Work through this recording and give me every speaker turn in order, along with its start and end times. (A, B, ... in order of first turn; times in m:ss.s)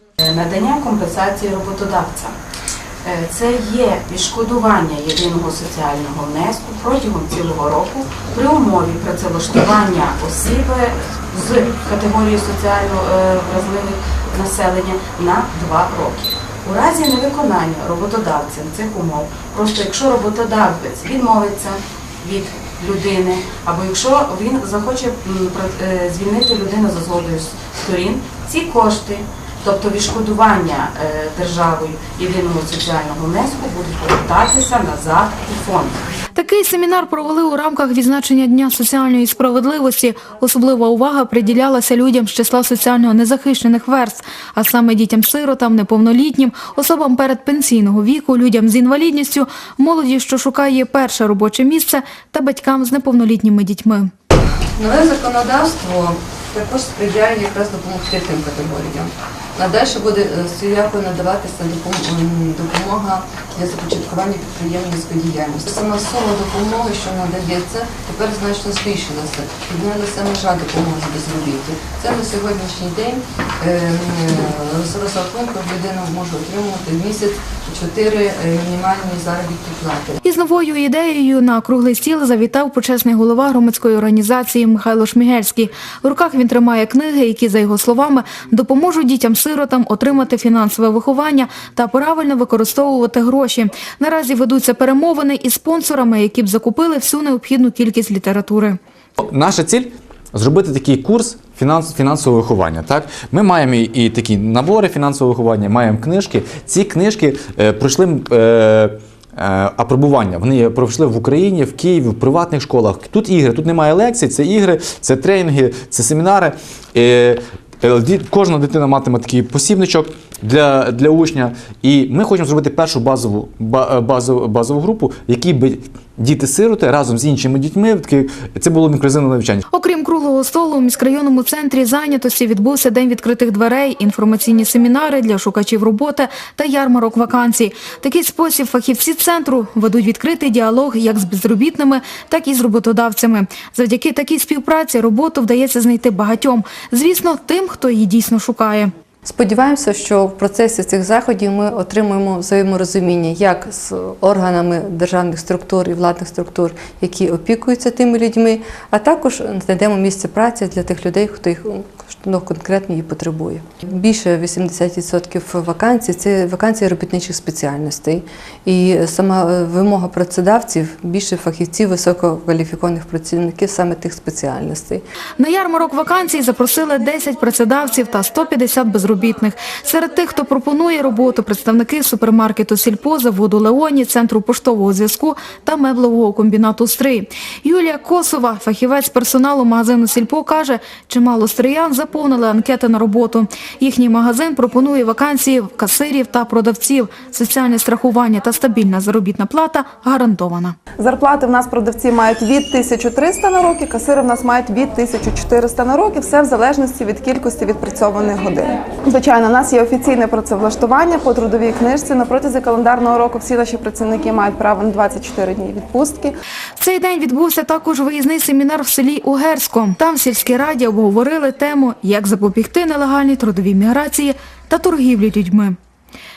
0:00.2-0:02.3 A
0:03.0-0:36.0 A
0:36.3-0:54.1 B
0:54.8-1:20.2 C
1:20.2-1:38.8 B
1:39.2-2:09.6 D
2:09.7-2:28.9 B
2:29.2-2:55.0 C
2:55.4-3:20.8 B
3:21.0-3:36.4 E
3:36.8-3:45.8 B